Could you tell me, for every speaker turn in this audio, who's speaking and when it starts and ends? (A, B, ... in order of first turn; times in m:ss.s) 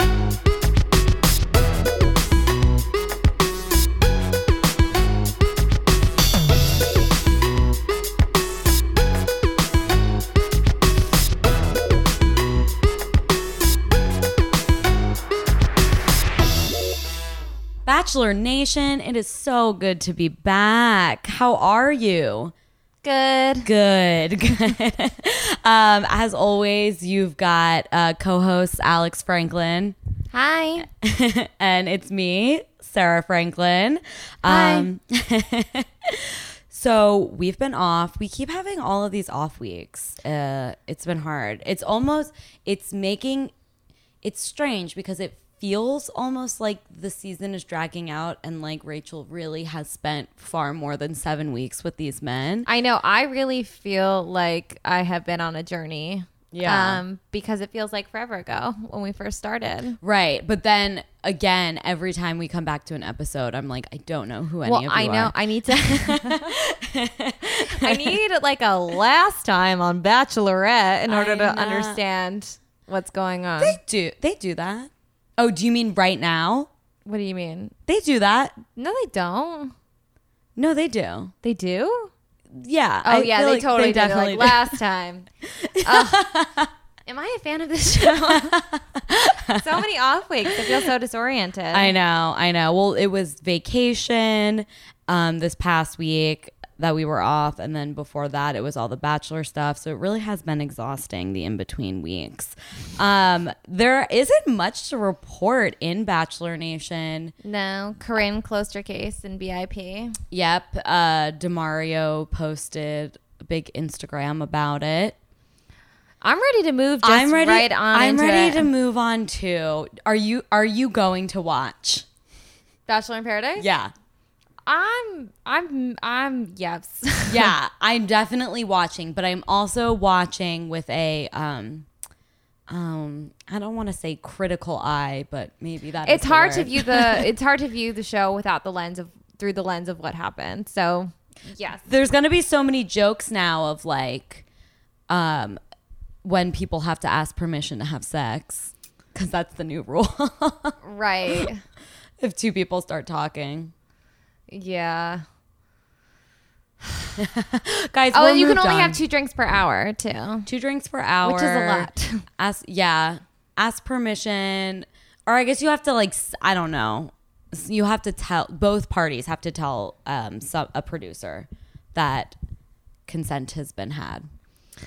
0:17.8-0:22.5 A
0:23.0-0:23.7 B
0:23.6-0:30.0 A
0:30.3-0:30.9 B
0:31.0-0:43.5 A
0:34.4-0:34.9 B
0:44.2-0:52.7 A
0:52.7-1:00.0 B
0:56.5-0:57.0 A
1:00.0-1:08.2 A
1:04.6-1:06.4 B
1:07.7-1:13.8 B
1:11.1-1:12.0 A
1:13.6-1:16.7 A
1:17.0-1:17.7 B
1:17.9-1:18.6 A
1:18.8-1:19.7 B
1:20.6-1:21.3 A
1:21.4-1:22.1 B
1:22.5-1:24.8 A
1:23.0-1:25.3 B
1:25.6-1:26.7 A
1:25.8-1:26.3 B
1:27.1-1:28.6 B
1:28.2-1:29.8 A
1:29.5-1:31.9 B
1:31.7-1:47.3 A
1:47.4-1:50.2 B
1:50.3-1:55.2 A
1:56.2-1:58.7 B
1:57.0-2:02.0 A
2:02.9-2:03.7 B
2:03.6-2:03.9 A
2:04.7-2:07.5 B
2:07.3-2:11.8 A
2:12.7-2:17.3 A
2:16.0-2:21.8 B
2:21.9-2:24.4 A
2:25.1-2:25.6 A
2:26.2-2:30.7 A
2:30.8-2:31.6 B
2:32.2-2:33.7 A
2:34.5-2:35.2 B
2:37.2-2:39.0 A
2:38.1-2:40.5 B
2:40.4-2:52.4 A
2:41.2-2:42.2 B
2:53.1-2:54.3 A